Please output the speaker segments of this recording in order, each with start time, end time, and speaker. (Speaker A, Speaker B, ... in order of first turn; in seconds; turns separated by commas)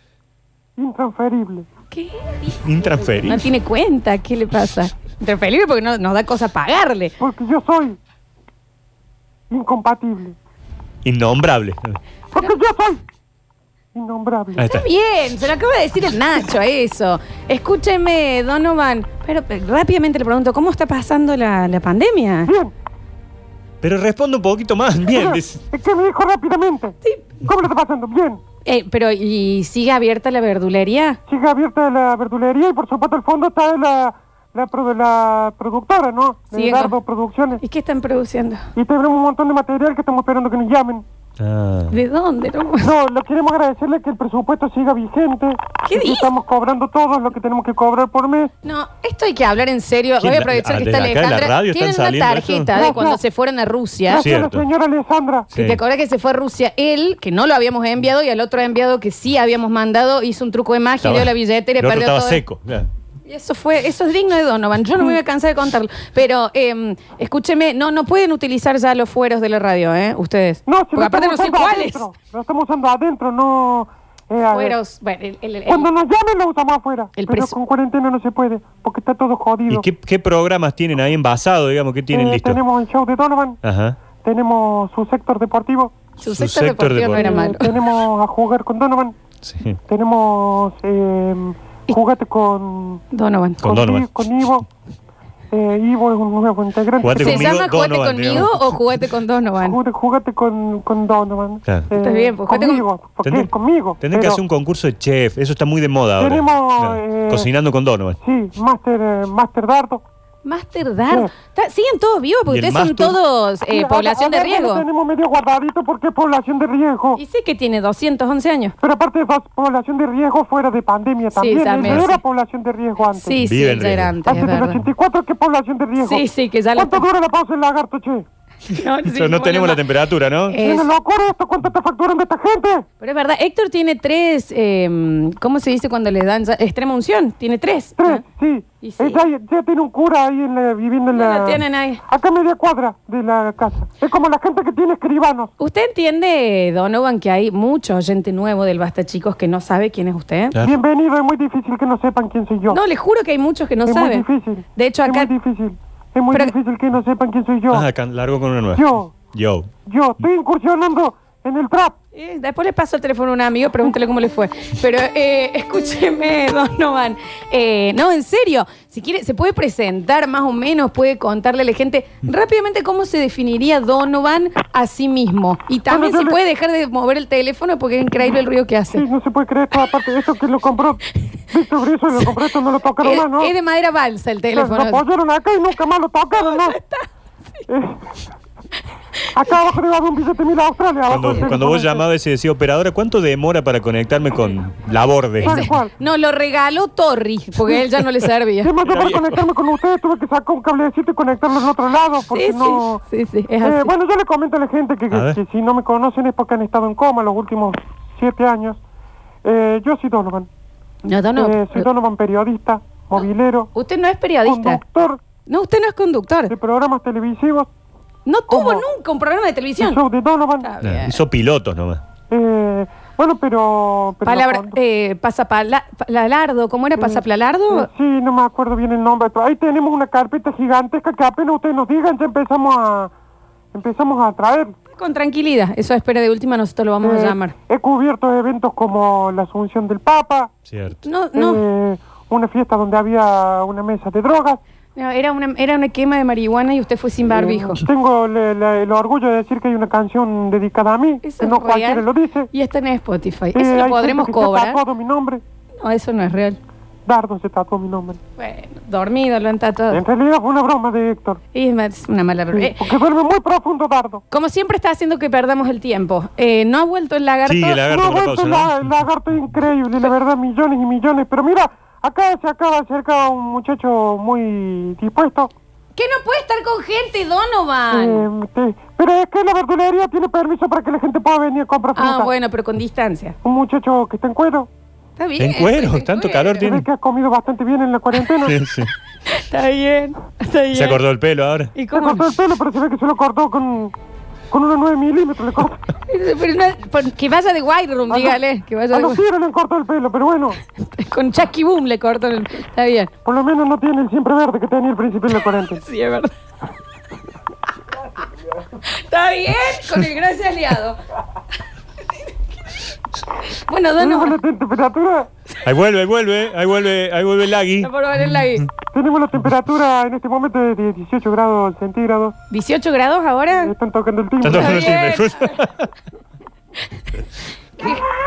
Speaker A: 0.8-1.7, Speaker B: 1.9-2.6, Speaker C: 2.6-3.5, Speaker B: 3.2-7.1, Speaker A: 7.2-8.0, Speaker A: 9.5-10.4, Speaker C: 11.0-12.0, Speaker A: 12.3-13.0, Speaker A: 13.9-14.7, Speaker C: 14.6-14.9, Speaker B: 14.6-22.5, Speaker A: 22.5-22.7, Speaker C: 23.8-25.6, Speaker A: 25.1-28.4, Speaker B: 28.6-31.2, Speaker A: 31.3-37.6, Speaker B: 36.5-37.0, Speaker B: 37.6-38.7, Speaker A: 38.8-41.0, Speaker C: 41.4-42.0, Speaker B: 41.9-42.9, Speaker A: 42.8-48.5, Speaker B: 45.8-46.3, Speaker B: 48.6-54.3, Speaker C: 50.2-52.8, Speaker A: 52.7-53.2, Speaker A: 54.1-55.5, Speaker C: 54.2-54.7, Speaker C: 55.5-55.8, Speaker B: 55.6-62.4, Speaker C: 61.0-62.9, Speaker B: 63.3-72.1, Speaker A: 70.7-74.8, Speaker B: 74.5-75.9, Speaker A: 75.7-79.9, Speaker B: 77.2-77.5, Speaker C: 79.7-82.6, Speaker A: 82.1-83.6, Speaker C: 83.6-84.0, Speaker A: 84.2-86.0, Speaker B: 86.2-87.7, Speaker C: 86.2-87.3, Speaker A: 87.1-89.2, Speaker C: 89.4-89.8, Speaker A: 89.9-93.0, Speaker B: 93.1-93.6, Speaker C: 93.6-94.1, Speaker A: 93.6-94.7, Speaker A: 95.5-97.5, Speaker C: 97.0-98.8, Speaker B: 97.1-99.8, Speaker A: 99.6-104.4, Speaker B: 101.9-102.8, Speaker C: 103.2-108.2, Speaker A: 106.2-107.5, Speaker A: 108.2-110.0, Speaker B: 110.5-114.8, Speaker C: 112.5-113.2, Speaker A: 113.7-117.2, Speaker B: 117.2-118.8, Speaker A: 118.8-123.4, Speaker B: 121.3-122.2, Speaker B: 123.2-124.8, Speaker C: 123.4-124.2, Speaker A: 124.3-128.2, Speaker B: 126.0-127.0, Speaker B: 128.7-129.8, Speaker C: 129.0-130.6, Speaker B: 130.5-130.9, Speaker A: 130.6-132.8, Speaker B: 133.0-138.2, Speaker A: 138.0-145.5, Speaker B: 138.8-139.2, Speaker B: 141.1-142.0, Speaker B: 145.6-150.6, Speaker C: 150.5-150.8, Speaker A: 150.6-152.8, Speaker B: 152.7-155.3, Speaker A: 153.9-157.9, Speaker C: 157.7-159.7, Speaker A: 158.7-159.2, Speaker A: 159.9-162.0, Speaker B: 162.2-179.1, Speaker A: 175.9-176.4, Speaker A: 178.9-183.5, Speaker B: 183.0-185.1, Speaker A: 184.5-186.8, Speaker B: 186.4-187.1, Speaker A: 187.7-188.0, Speaker A: 189.3-192.0, Speaker C: 191.1-195.7, Speaker A: 195.4-195.9, Speaker B: 195.4-198.7, Speaker A: 198.6-203.0, Speaker C: 198.8-199.4, Speaker B: 202.3-203.9, Speaker A: 203.6-208.8, Speaker C: 205.1-205.4, Speaker A: 209.4-210.5, Speaker B: 211.1-211.9, Speaker A: 211.4-213.7, Speaker B: 213.8-214.8, Speaker A: 214.4-215.2, Speaker B: 215.5-216.5, Speaker A: 216.5-217.7, Speaker B: 218.3-220.0, Speaker A: 218.5-218.8, Speaker A: 219.8-220.7, Speaker B: 220.6-221.2, Speaker C: 220.8-222.0, Speaker A: 222.3-224.8, Speaker B: 224.2-227.9, Speaker A: 227.0-233.1, Speaker A: 233.7-234.8, Speaker B: 234.9-237.6, Speaker A: 237.0-240.5, Speaker C: 240.7-241.0, Speaker B: 241.0-241.6, Speaker A: 241.4-244.6, Speaker B: 245.0-247.8, Speaker A: 247.3-252.5, Speaker B: 251.2-254.8, Speaker A: 253.6-255.4, Speaker B: 255.8-256.6, Speaker A: 257.1-258.2, Speaker B: 258.4-260.0, Speaker A: 259.9-261.4, Speaker B: 261.5-262.9, Speaker A: 262.5-264.2, Speaker B: 264.3-267.8, Speaker C: 267.5-268.8, Speaker A: 267.8-275.5, Speaker B: 276.0-278.3, Speaker A: 277.9-282.3, Speaker B: 281.9-283.4, Speaker A: 283.4-284.7, Speaker B: 285.2-286.7, Speaker C: 285.4-286.9, Speaker A: 286.6-288.6, Speaker C: 288.4-288.9, Speaker B: 289.3-291.0, Speaker C: 290.7-291.7, Speaker B: 291.8-292.2, Speaker A: 291.9-293.9, Speaker A: 294.5-295.8, Speaker B: 296.1-299.2, Speaker A: 298.1-298.4, Speaker A: 298.9-300.6, Speaker B: 300.9-303.1, Speaker A: 303.2-305.8, Speaker B: 305.8-306.3, Speaker B: 308.9-311.0, Speaker B: 313.5-314.4, Speaker A: 314.0-315.3, Speaker C: 315.6-318.4, Speaker B: 317.8-318.7, Speaker A: 318.9-322.3, Speaker B: 322.5-323.7, Speaker A: 323.6-324.9, Speaker C: 324.4-325.9, Speaker B: 324.5-325.7, Speaker B: 327.8-328.1